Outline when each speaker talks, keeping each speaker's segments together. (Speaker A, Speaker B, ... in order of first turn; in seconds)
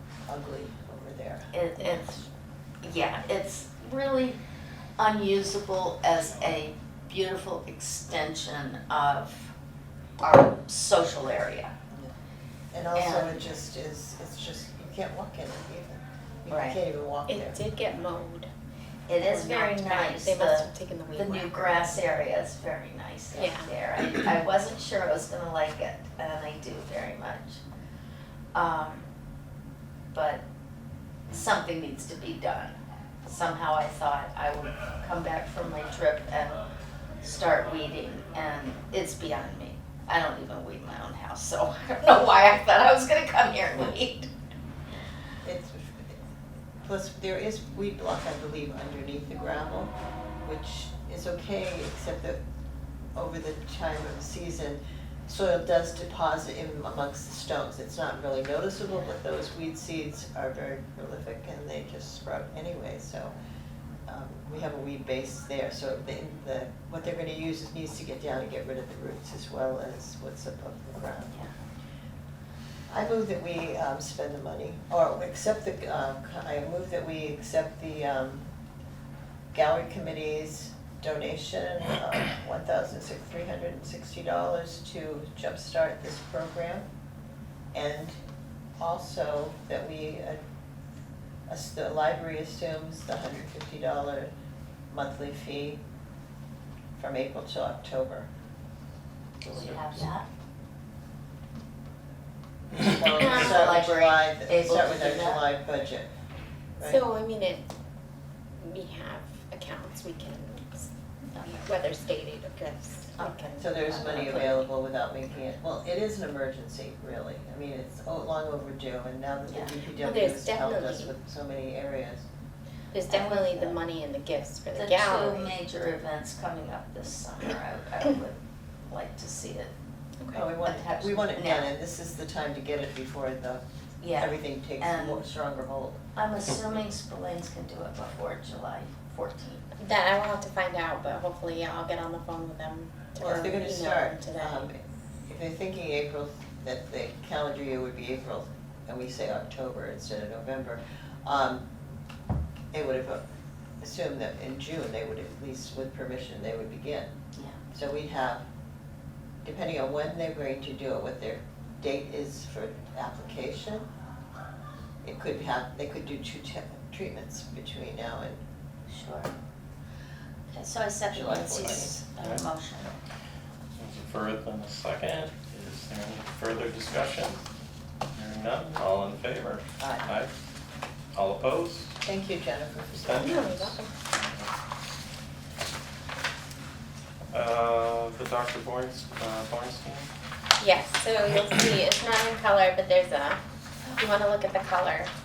Speaker A: 0.3-1.5, 12.7-17.6, 45.4-46.1, 46.8-52.4, 53.1-63.3, 64.1-71.5, 72.9-78.5, 79.5-86.8, 87.7-88.2, 88.8-90.4, 91.5-94.3, 94.9-95.8, 97.0-98.3, 102.7-106.1, 106.8-107.0, 113.6-122.2, 130.3-133.6, 134.2-136.0, 143.2-151.6, 152.7-153.2, 153.8-157.1, 157.7-158.4, 159.4-163.8, 165.0-168.4, 171.1-172.0, 179.8-180.1, 182.0-183.4
Speaker B: 1.5-2.2, 2.8-4.4, 5.0-9.5, 10.2-11.7, 12.9-13.4, 16.5-16.8, 19.1-27.6, 28.5-29.0, 30.1-30.4, 31.3-36.6, 37.2-44.3, 99.4-100.2, 103.2-105.4, 111.3-111.6, 113.2-114.7, 119.5-119.7, 123.1-123.8, 124.7-129.7, 130.6-131.7, 134.0-135.2, 136.2-139.6, 168.9-169.3, 170.5-172.9
Speaker C: 17.3-18.5, 19.2-22.0, 23.3-23.7, 103.2-103.6, 106.8-107.7, 108.6-110.9, 111.5-114.2, 120.0-121.1, 122.9-125.5, 130.2-130.5, 139.8-144.7, 183.2-183.9, 190.6-193.4, 193.9-195.1
Speaker D: 99.5-99.7, 171.5-172.4, 173.8-177.4, 178.1-180.3, 181.1-181.9, 182.9-184.5, 187.3-190.1